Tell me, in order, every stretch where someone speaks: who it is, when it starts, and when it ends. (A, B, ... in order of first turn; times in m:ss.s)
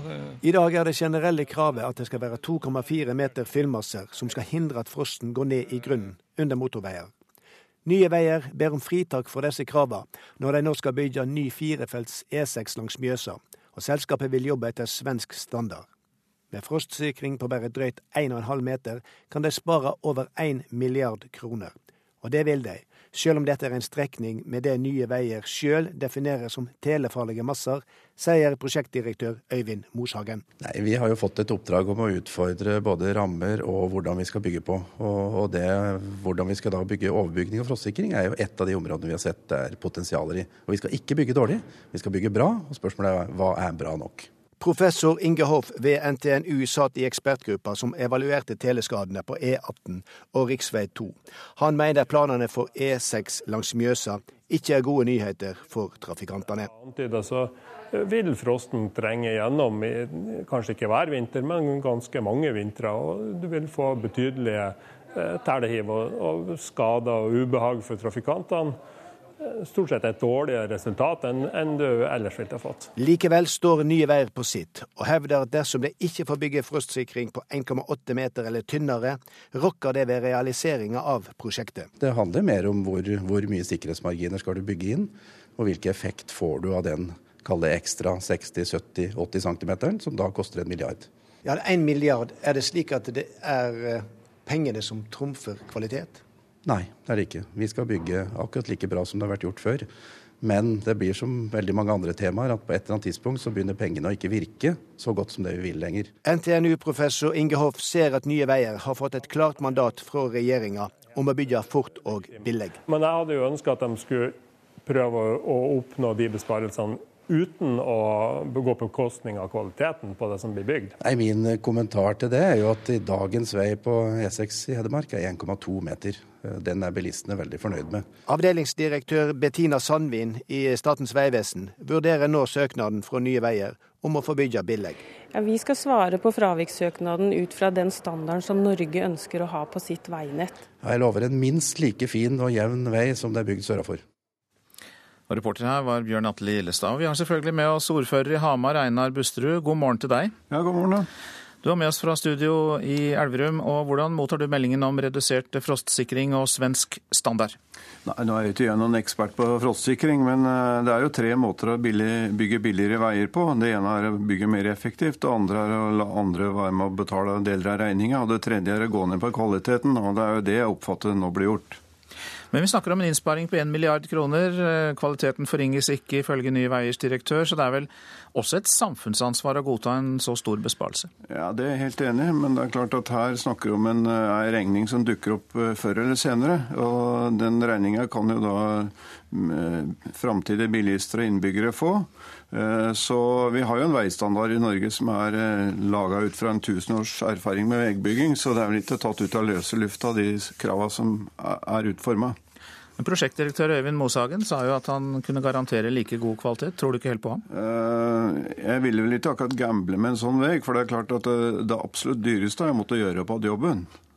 0:00.4-0:07.1 A
0:07.8-0:15.8 A
0:16.5-0:30.4 A
0:30.6-0:44.3 B
0:44.6-0:56.7 A
0:56.7-1:08.8 C
1:09.4-1:12.9 C
1:13.0-1:21.9 A
1:22.0-1:31.1 B
1:31.4-1:36.2 A
1:36.6-1:39.9 B
1:40.4-1:46.1 B
1:46.2-1:52.8 A
1:52.9-2:01.0 C
2:01.0-2:08.0 B
2:08.3-2:15.0 A
2:15.3-2:20.6 D
2:20.8-2:24.0 B
2:25.3-2:30.3 E
2:30.5-2:31.1 F
2:31.6-2:37.6 E
2:38.0-2:51.8 F
2:52.5-3:01.1 E
3:01.3-3:22.4 F
3:23.0-3:27.4 E
3:27.5-3:33.9 F